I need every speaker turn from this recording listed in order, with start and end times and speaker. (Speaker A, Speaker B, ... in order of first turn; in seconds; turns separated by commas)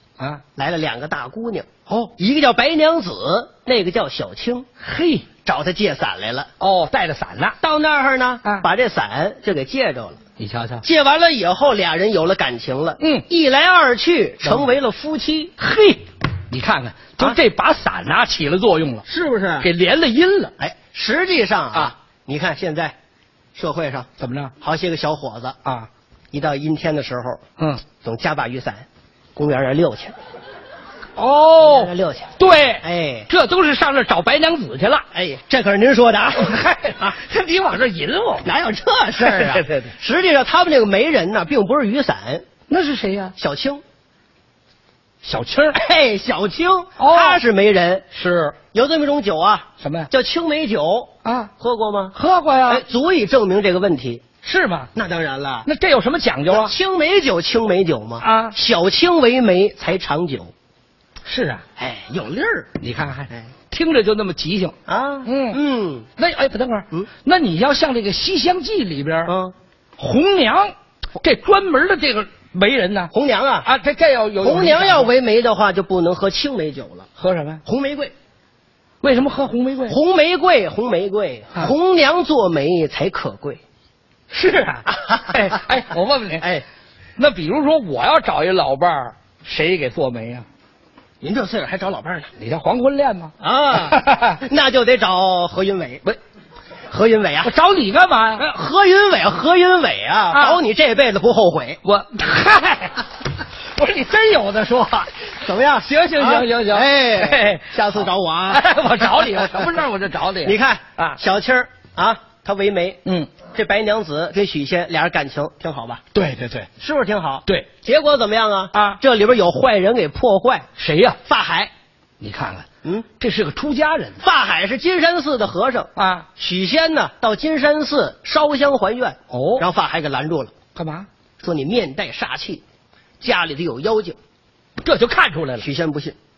Speaker A: 0.6-4.7, Speaker B: 4.8-5.3, Speaker A: 5.5-6.5, Speaker B: 6.6-7.6, Speaker A: 7.6-10.2, Speaker B: 10.4-10.8, Speaker A: 10.8-15.5, Speaker B: 13.0-13.3, Speaker B: 15.6-19.1, Speaker A: 19.1-19.7, Speaker B: 19.6-20.5, Speaker A: 20.6-22.9, Speaker A: 23.6-24.1, Speaker B: 24.2-24.5, Speaker A: 24.6-25.6, Speaker A: 26.3-27.4, Speaker A: 28.0-30.2, Speaker B: 31.2-35.1, Speaker A: 31.6-33.3, Speaker A: 35.1-37.2, Speaker B: 36.4-38.5, Speaker A: 38.4-42.5, Speaker B: 39.2-39.9, Speaker B: 42.7-43.4, Speaker A: 43.4-43.8, Speaker B: 45.2-45.8, Speaker A: 45.7-48.1, Speaker B: 47.0-47.4, Speaker B: 48.1-48.6, Speaker A: 48.7-54.2, Speaker B: 49.8-50.1, Speaker B: 51.2-51.5, Speaker B: 52.1-52.8, Speaker B: 54.4-54.9, Speaker A: 55.0-55.7, Speaker B: 55.7-56.7, Speaker A: 56.5-60.5, Speaker B: 58.2-58.6, Speaker B: 61.3-61.6, Speaker A: 61.8-62.7, Speaker B: 62.8-65.6, Speaker A: 64.9-66.1, Speaker B: 66.2-69.3, Speaker A: 69.3-69.5, Speaker B: 70.0-73.1, Speaker A: 73.1-73.7, Speaker B: 73.7-75.1, Speaker A: 74.4-77.1, Speaker B: 77.2-77.6, Speaker A: 77.7-78.1, Speaker B: 79.0-80.0, Speaker A: 79.9-83.6, Speaker B: 84.3-86.5, Speaker A: 84.9-85.6, Speaker A: 86.4-86.7, Speaker B: 87.2-90.5, Speaker A: 91.2-92.3, Speaker B: 92.4-94.4, Speaker A: 93.4-96.0, Speaker A: 96.9-97.5, Speaker B: 97.4-98.5, Speaker A: 98.4-101.8, Speaker B: 100.3-100.6, Speaker B: 101.8-111.2, Speaker A: 105.3-109.7, Speaker A: 110.4-116.0, Speaker B: 113.0-113.3, Speaker B: 116.1-116.7, Speaker A: 116.8-120.7, Speaker B: 118.7-119.0, Speaker B: 120.8-121.2, Speaker A: 121.2-121.7, Speaker B: 122.2-122.7, Speaker B: 123.2-124.2, Speaker A: 124.2-130.5, Speaker B: 126.0-126.3, Speaker B: 129.3-129.7, Speaker B: 130.8-131.1, Speaker A: 131.4-132.6, Speaker A: 133.2-134.2, Speaker B: 134.8-135.7, Speaker A: 135.6-136.2